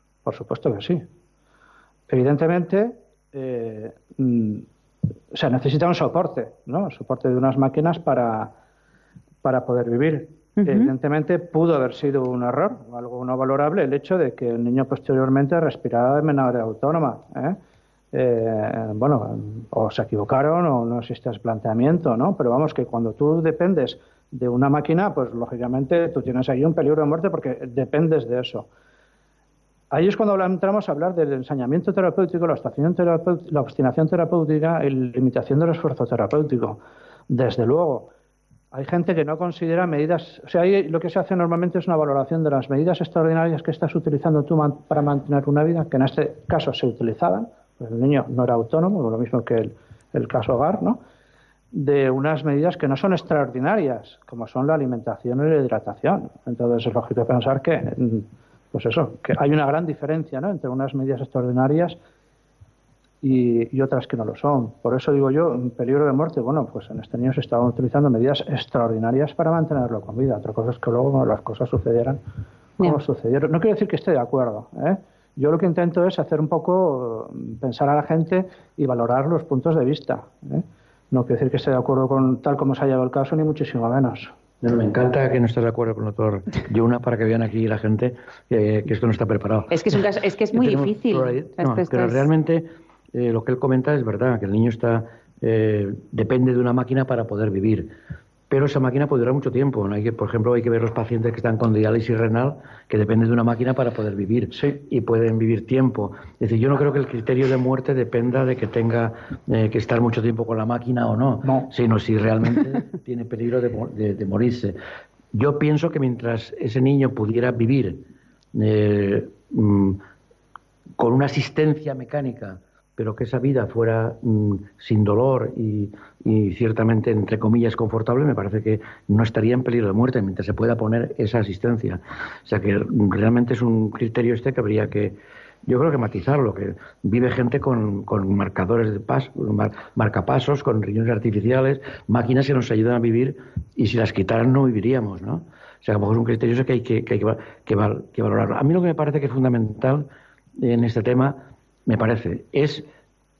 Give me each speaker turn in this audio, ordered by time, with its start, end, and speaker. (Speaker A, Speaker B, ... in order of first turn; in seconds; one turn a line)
Speaker A: 0.2-1.1
Speaker A: 2.1-4.7
Speaker A: 5.3-8.6
Speaker A: 9.4-17.6
Speaker B: 10.6-10.9
Speaker A: 18.1-28.7
Speaker A: 29.9-38.1
Speaker A: 38.7-51.0
Speaker A: 51.7-62.0
Speaker A: 63.2-72.2
Speaker A: 72.8-84.3
Speaker C: 84.6-90.0
Speaker B: 89.7-92.3
Speaker C: 90.5-97.9
Speaker C: 98.5-114.8
Speaker A: 104.5-104.8
Speaker A: 111.4-111.7
Speaker C: 115.3-120.0
Speaker C: 121.0-152.9